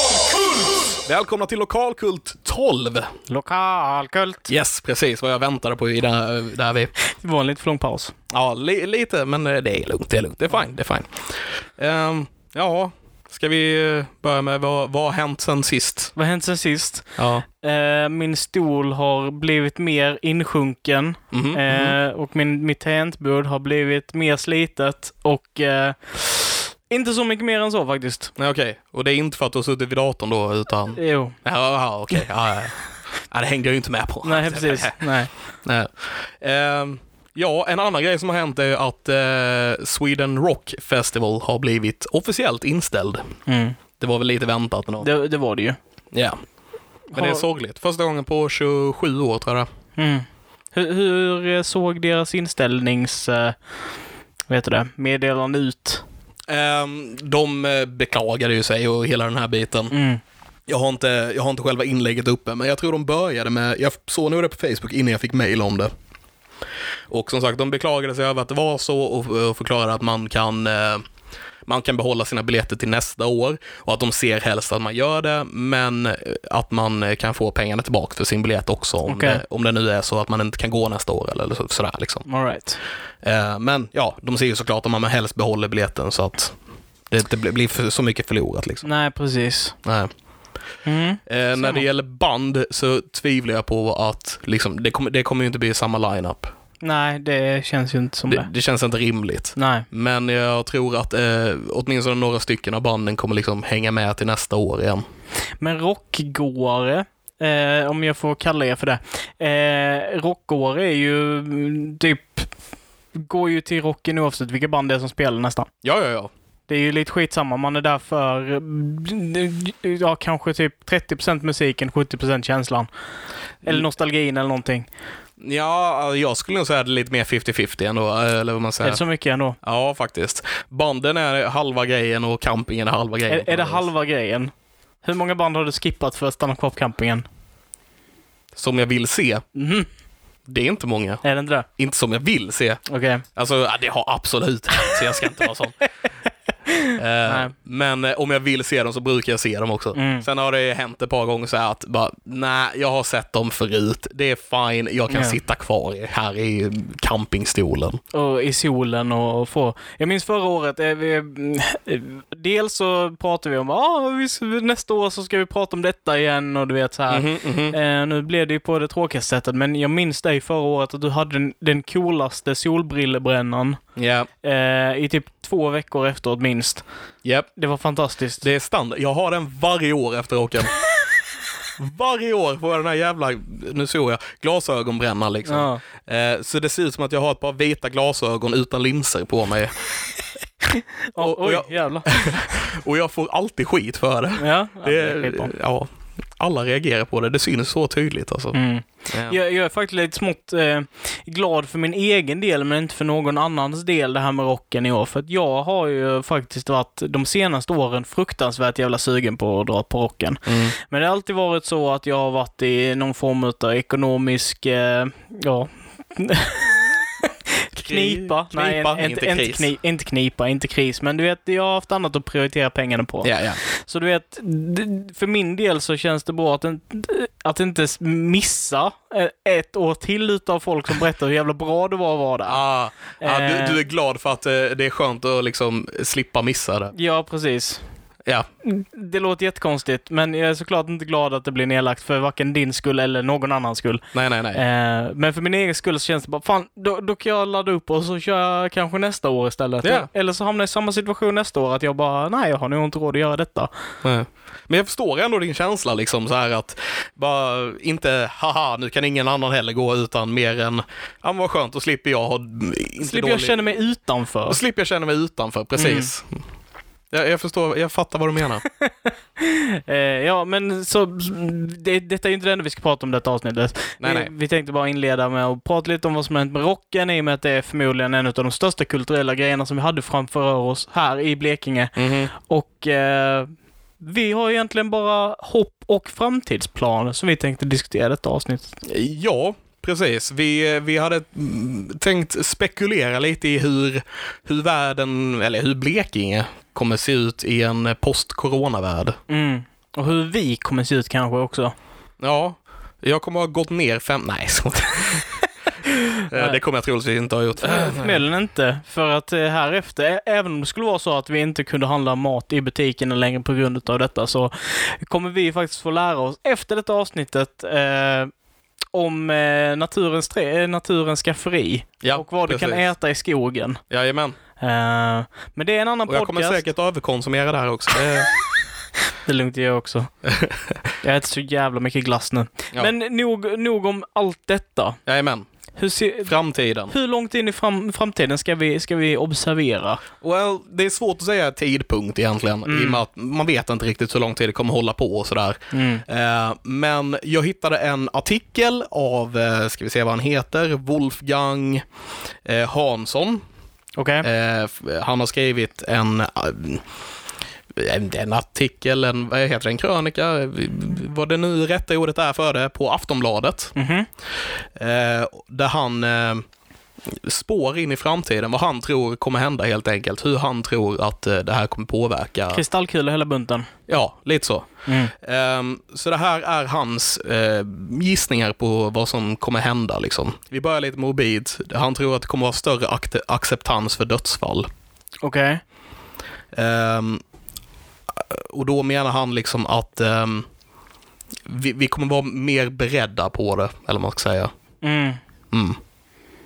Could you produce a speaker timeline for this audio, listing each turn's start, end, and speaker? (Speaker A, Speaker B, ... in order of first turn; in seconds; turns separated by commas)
Speaker A: 1.0-3.2, Speaker B: 3.3-4.5, Speaker A: 4.5-6.9, Speaker B: 7.1-8.1, Speaker A: 8.3-16.1, Speaker B: 16.1-28.3, Speaker A: 17.2-17.4, Speaker A: 21.3-22.0, Speaker A: 28.4-35.1, Speaker B: 30.9-31.4, Speaker B: 34.2-35.3, Speaker A: 35.6-43.3, Speaker B: 43.5-43.8, Speaker A: 44.0-45.1, Speaker B: 45.0-45.8, Speaker A: 46.1-46.4, Speaker B: 47.1-47.4, Speaker A: 47.1-49.7, Speaker B: 50.0-53.5, Speaker B: 54.5-56.0, Speaker A: 56.5-59.9, Speaker B: 59.9-60.2, Speaker A: 60.7-65.9, Speaker A: 67.1-71.0, Speaker A: 71.6-82.3, Speaker B: 79.0-79.4, Speaker B: 82.3-82.8, Speaker A: 83.2-86.5, Speaker A: 87.1-88.9, Speaker B: 88.8-89.8, Speaker A: 89.8-90.1, Speaker B: 90.8-91.8, Speaker A: 91.2-96.5, Speaker B: 96.8-98.5, Speaker A: 98.3-105.0, Speaker B: 99.5-99.8, Speaker B: 105.6-112.5, Speaker B: 113.2-115.7, Speaker A: 115.8-116.3, Speaker B: 116.7-122.9, Speaker B: 123.6-124.9, Speaker A: 125.4-129.0, Speaker B: 128.8-129.6, Speaker A: 129.6-133.9, Speaker B: 133.3-134.5, Speaker B: 135.0-137.2, Speaker A: 138.5-139.4, Speaker B: 139.5-139.9, Speaker A: 140.5-142.8, Speaker B: 141.2-141.7, Speaker B: 142.9-143.2, Speaker A: 143.3-145.8, Speaker B: 146.7-147.5, Speaker A: 146.9-158.0, Speaker B: 149.9-150.2, Speaker B: 155.1-155.4, Speaker B: 158.1-173.8, Speaker A: 167.1-167.8, Speaker A: 173.9-174.3, Speaker B: 174.4-176.8, Speaker A: 177.2-177.5, Speaker B: 177.6-178.4, Speaker A: 178.4-180.7, Speaker A: 181.8-190.0, Speaker B: 185.4-185.8, Speaker B: 190.7-192.5, Speaker A: 191.2-198.6, Speaker B: 194.4-195.5, Speaker B: 198.5-232.6, Speaker A: 199.1-199.4, Speaker A: 210.5-210.7, Speaker A: 217.8-219.7, Speaker A: 223.2-223.6, Speaker A: 232.5-236.9, Speaker B: 233.2-233.8, Speaker B: 236.9-237.8, Speaker B: 238.6-253.7, Speaker A: 244.1-244.6, Speaker A: 249.8-250.1, Speaker A: 254.0-263.6, Speaker B: 263.0-264.6, Speaker A: 264.5-266.4, Speaker B: 265.8-266.1, Speaker A: 267.1-268.6, Speaker B: 269.4-288.8, Speaker A: 274.0-274.3, Speaker A: 281.9-282.3, Speaker A: 288.8-299.2, Speaker B: 299.3-301.7, Speaker A: 302.2-305.3, Speaker A: 306.3-308.2, Speaker B: 306.3-306.6, Speaker B: 307.6-318.3, Speaker B: 318.9-323.8, Speaker A: 322.0-322.9, Speaker A: 323.9-324.4, Speaker B: 324.6-326.6, Speaker A: 326.1-328.3, Speaker B: 329.2-330.1, Speaker A: 330.3-330.6, Speaker B: 331.0-335.0, Speaker A: 335.1-335.5, Speaker B: 335.8-336.3, Speaker A: 336.2-336.9, Speaker B: 336.9-340.0, Speaker A: 340.2-351.8, Speaker B: 342.6-343.0, Speaker B: 345.7-346.0, Speaker A: 352.4-353.4, Speaker B: 354.0-354.3, Speaker A: 354.2-356.8, Speaker A: 357.7-363.7, Speaker B: 363.7-364.1, Speaker A: 364.8-366.4, Speaker A: 367.1-372.6, Speaker B: 372.5-373.7, Speaker A: 373.9-384.7, Speaker B: 374.9-375.1, Speaker B: 385.2-385.6, Speaker A: 386.5-387.2, Speaker A: 388.1-390.5, Speaker A: 391.4-394.5, Speaker B: 394.8-395.2, Speaker A: 395.5-395.8